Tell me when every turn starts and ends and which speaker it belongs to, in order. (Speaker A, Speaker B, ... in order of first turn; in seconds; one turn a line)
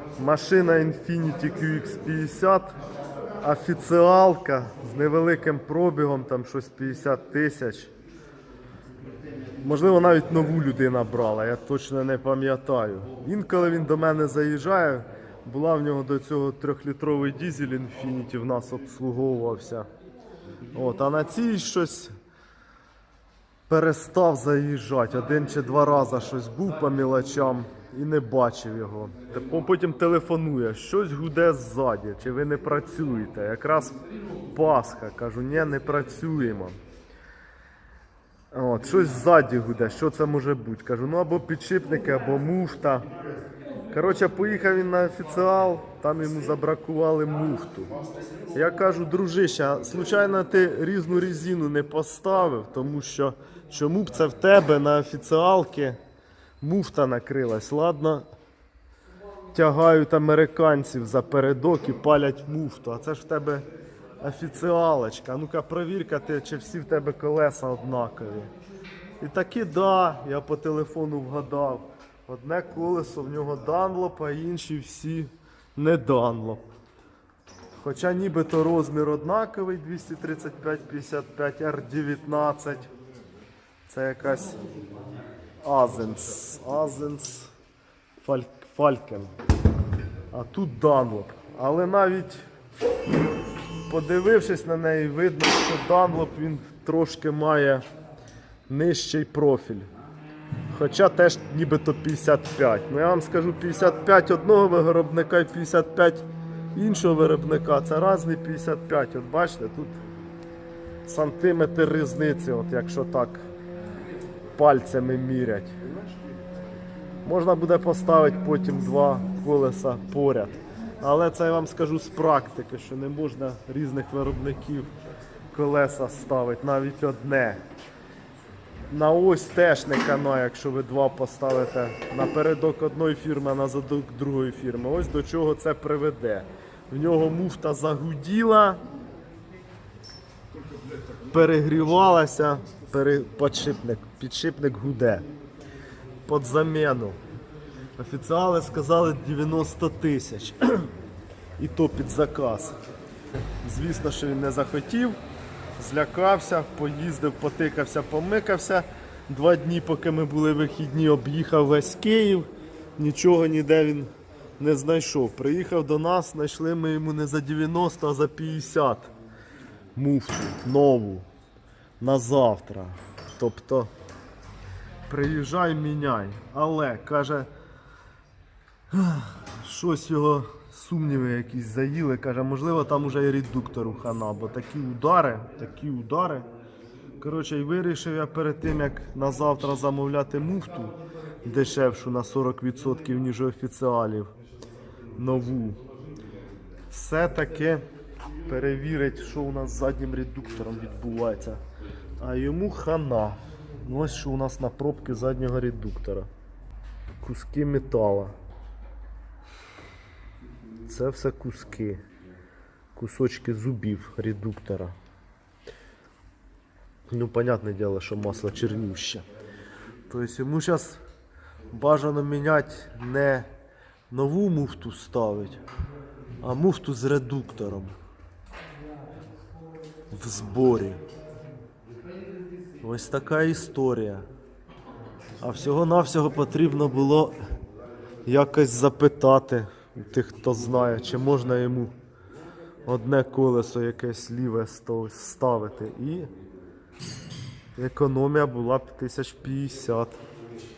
Speaker A: 0.2-2.7
Speaker A: 3.4-7.9
Speaker A: 9.6-19.9
Speaker A: 20.7-22.1
Speaker A: 23.7-34.0
Speaker A: 34.5-36.8
Speaker A: 38.5-43.0
Speaker A: 43.9-47.9
Speaker A: 48.5-56.0
Speaker A: 56.6-58.2
Speaker A: 59.5-63.6
Speaker A: 64.2-68.5
Speaker A: 69.2-76.6
Speaker A: 77.8-82.9
Speaker A: 83.8-84.6
Speaker A: 85.6-87.5
Speaker A: 88.2-89.3
Speaker A: 90.3-92.4
Speaker A: 93.8-97.8
Speaker A: 98.7-99.9
Speaker A: 100.7-110.0
Speaker A: 111.0-113.5
Speaker A: 114.5-115.7
Speaker A: 117.2-124.9
Speaker A: 125.5-127.6
Speaker A: 128.9-138.8
Speaker A: 141.3-145.3
Speaker A: 146.2-147.2
Speaker A: 148.0-150.9
Speaker A: 151.6-152.7
Speaker A: 153.6-155.2
Speaker A: 155.8-169.1
Speaker A: 169.9-171.3
Speaker A: 172.0-173.9
Speaker A: 175.1-177.5
Speaker A: 178.9-186.5
Speaker A: 187.2-194.3
Speaker A: 195.2-195.8
Speaker A: 196.9-197.8
Speaker A: 198.4-201.6
Speaker A: 202.2-206.3
Speaker A: 207.2-208.3
Speaker A: 210.8-212.0
Speaker A: 212.9-214.9
Speaker A: 217.1-219.2
Speaker A: 220.1-221.0
Speaker A: 221.7-223.5
Speaker A: 224.1-225.6
Speaker A: 226.4-227.9
Speaker A: 230.1-231.0
Speaker A: 232.8-234.2
Speaker A: 235.4-237.4
Speaker A: 238.2-241.9
Speaker A: 242.8-246.3
Speaker A: 247.7-250.2